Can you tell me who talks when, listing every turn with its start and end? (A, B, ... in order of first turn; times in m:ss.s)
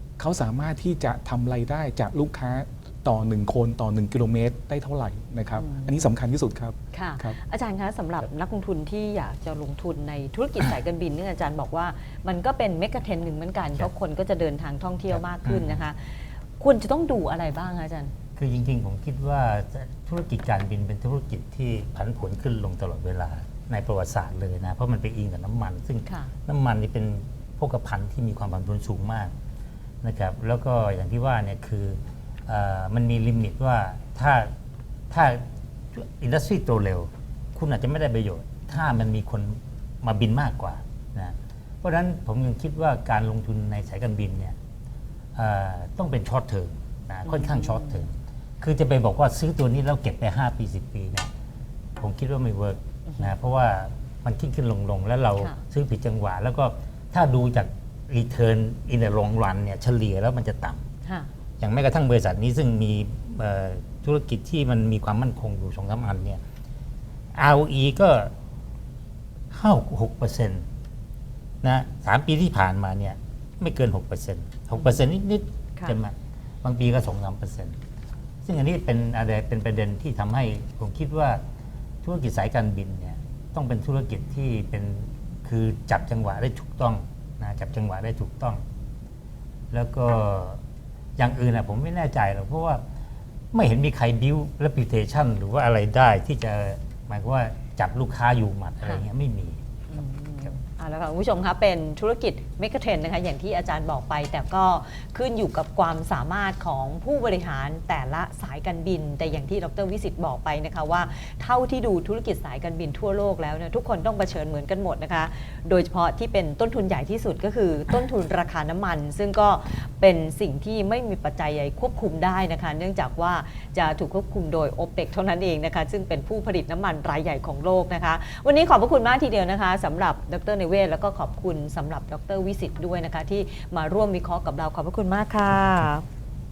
0:00.2-0:07.4 A
0:05.6-0:06.0 B
0:06.9-0:18.1 B
0:15.4-0:15.8 C
0:18.4-0:29.3 C
0:26.1-0:26.3 B
0:30.0-0:34.5 C
0:35.1-0:44.6 C
0:45.4-0:51.3 C
0:47.3-0:48.0 B
0:52.0-1:00.8 C
1:01.0-1:01.3 B
1:01.6-1:06.4 C
1:07.3-1:08.3 C
1:09.5-1:10.6 C
1:11.6-1:17.8 C
1:18.4-1:21.4 C
1:22.0-1:28.6 C
1:29.7-1:30.6 C
1:31.2-1:32.8 C
1:33.5-1:39.6 C
1:39.9-2:16.0 B